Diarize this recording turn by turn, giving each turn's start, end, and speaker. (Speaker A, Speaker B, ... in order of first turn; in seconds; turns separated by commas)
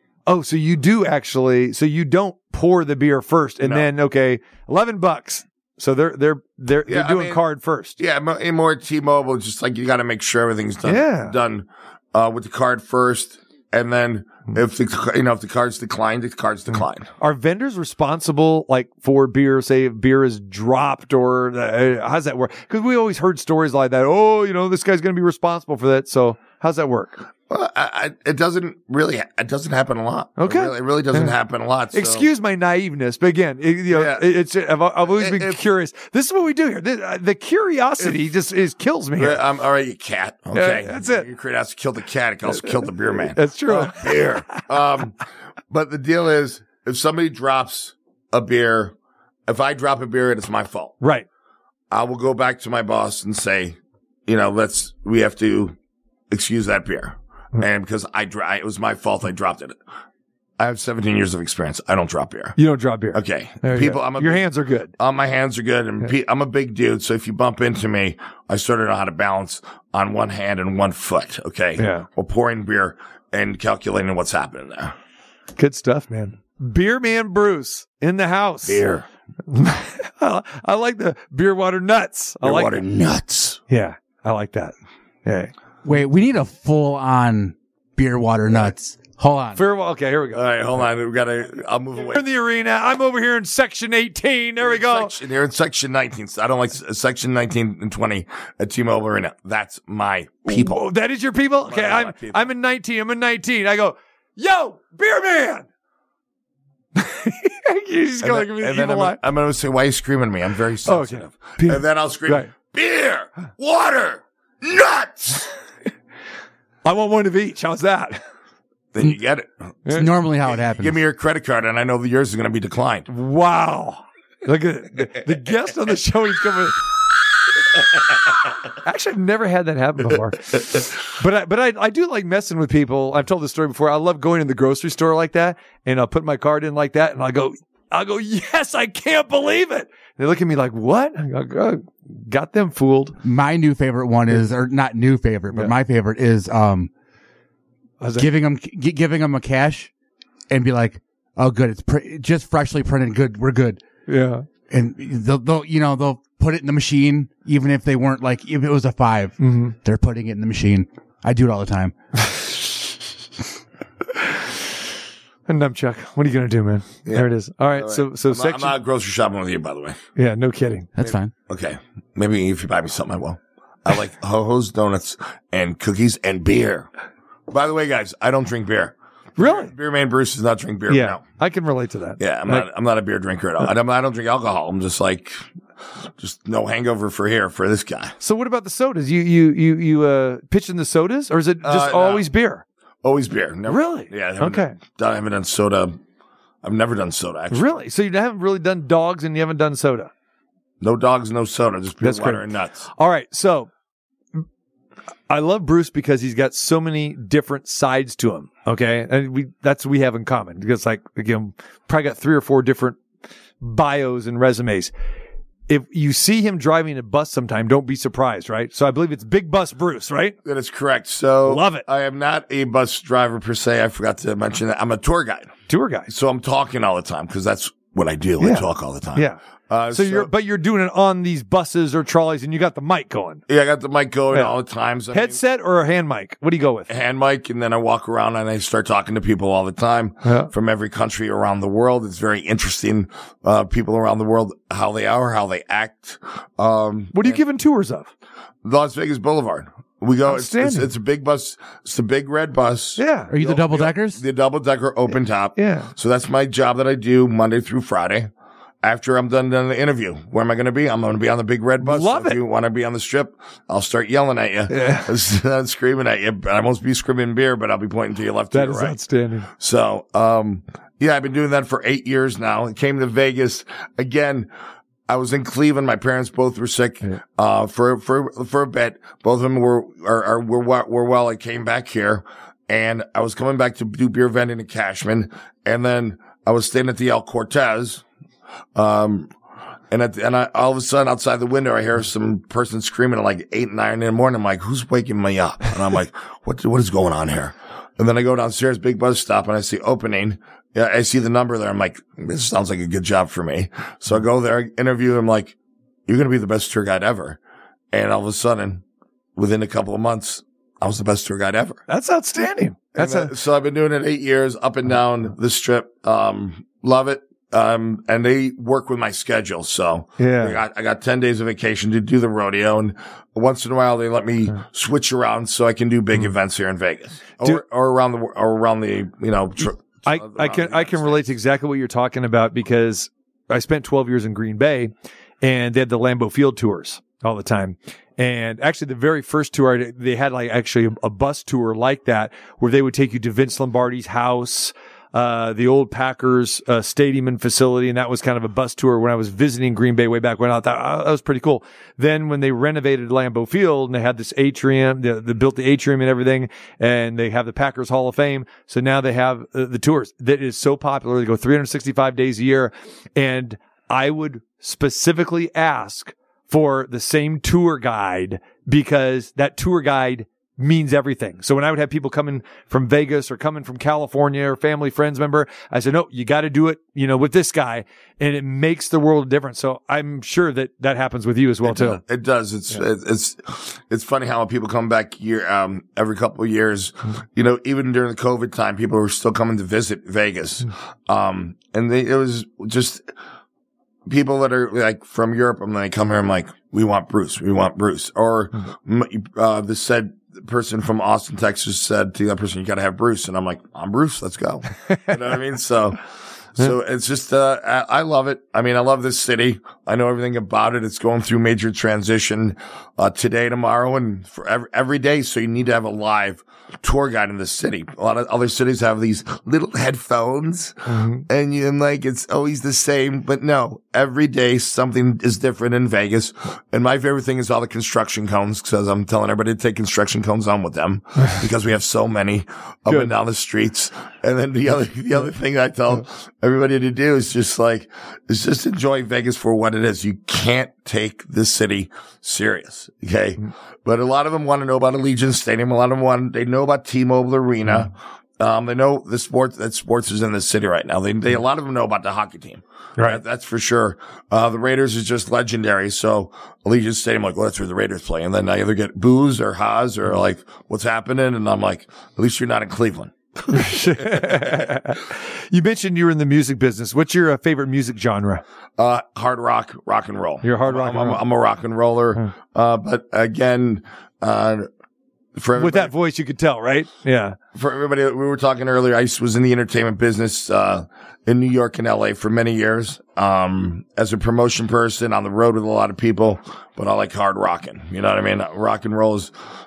Speaker A: 0.3-8.0, Speaker B: 3.6-3.9, Speaker B: 6.9-7.4, Speaker B: 8.0-17.1, Speaker A: 10.8-11.3, Speaker A: 17.2-27.2, Speaker B: 27.5-32.3, Speaker A: 30.4-31.3, Speaker A: 31.9-39.4, Speaker B: 33.9-34.3, Speaker B: 35.0-35.6, Speaker B: 39.2-45.2, Speaker A: 40.5-41.3, Speaker A: 43.3-44.6, Speaker B: 45.7-48.9, Speaker B: 49.5-51.0, Speaker A: 51.0-51.3, Speaker B: 51.9-55.8, Speaker B: 56.3-59.8, Speaker B: 60.6-62.6, Speaker A: 62.6-64.9, Speaker B: 63.1-74.9, Speaker A: 71.8-72.1, Speaker A: 75.6-78.8, Speaker B: 78.7-79.1, Speaker A: 79.5-82.8, Speaker B: 82.4-83.6, Speaker A: 83.7-84.7, Speaker A: 85.2-85.5, Speaker C: 85.8-89.6, Speaker A: 89.5-90.5, Speaker B: 90.3-92.3, Speaker A: 92.1-95.1, Speaker B: 94.6-100.9, Speaker A: 100.5-105.7, Speaker B: 101.7-102.5, Speaker A: 107.0-109.2, Speaker B: 108.2-115.5, Speaker A: 110.9-112.5, Speaker A: 116.8-118.2, Speaker B: 118.9-119.5, Speaker C: 119.9-121.0, Speaker B: 120.4-123.1, Speaker A: 123.1-126.8, Speaker A: 128.8-130.5, Speaker B: 130.5-130.9, Speaker A: 131.2-143.2, Speaker C: 143.2-146.9, Speaker A: 148.0-148.3, Speaker C: 148.2-149.9, Speaker C: 150.5-153.8, Speaker A: 154.1-154.4, Speaker C: 154.7-161.9, Speaker A: 159.4-159.8, Speaker A: 165.5-168.8, Speaker B: 167.1-170.0, Speaker A: 170.2-170.9, Speaker C: 171.0-171.3, Speaker B: 171.5-176.9, Speaker B: 177.5-181.2, Speaker A: 179.4-179.7, Speaker A: 180.9-182.7, Speaker B: 182.2-185.4, Speaker B: 186.2-188.2, Speaker A: 188.2-192.6, Speaker B: 191.6-192.3, Speaker B: 193.0-196.0, Speaker A: 193.7-194.8, Speaker B: 196.6-197.7, Speaker A: 197.5-200.1, Speaker B: 200.8-202.9, Speaker A: 202.0-203.7, Speaker A: 205.3-213.0, Speaker A: 213.6-214.9, Speaker A: 215.7-220.4, Speaker B: 220.4-225.6, Speaker A: 221.5-221.8, Speaker A: 225.7-226.1, Speaker B: 226.1-230.3, Speaker A: 228.4-229.4, Speaker A: 229.9-233.4, Speaker B: 233.5-235.4, Speaker A: 235.1-236.9, Speaker B: 236.9-247.4, Speaker A: 240.2-240.5, Speaker A: 247.1-248.1, Speaker B: 248.6-258.3, Speaker A: 250.3-250.9, Speaker A: 253.0-253.3, Speaker C: 253.3-254.2, Speaker A: 255.6-255.9, Speaker B: 258.8-269.0, Speaker A: 261.8-262.4, Speaker A: 264.7-265.1, Speaker A: 268.5-269.5, Speaker B: 269.5-274.5, Speaker B: 275.1-288.0, Speaker B: 288.8-289.3, Speaker B: 289.9-305.6, Speaker B: 306.1-307.4, Speaker B: 307.9-308.8, Speaker B: 309.4-311.8, Speaker A: 311.9-313.3, Speaker B: 312.9-331.4, Speaker A: 320.2-320.6, Speaker A: 330.1-382.0, Speaker B: 381.6-393.1, Speaker B: 394.1-406.0, Speaker B: 406.6-464.8, Speaker A: 420.9-421.2, Speaker A: 463.5-468.4, Speaker B: 468.8-474.7, Speaker A: 470.4-471.2, Speaker B: 475.4-475.9, Speaker A: 475.6-477.4, Speaker B: 477.6-489.3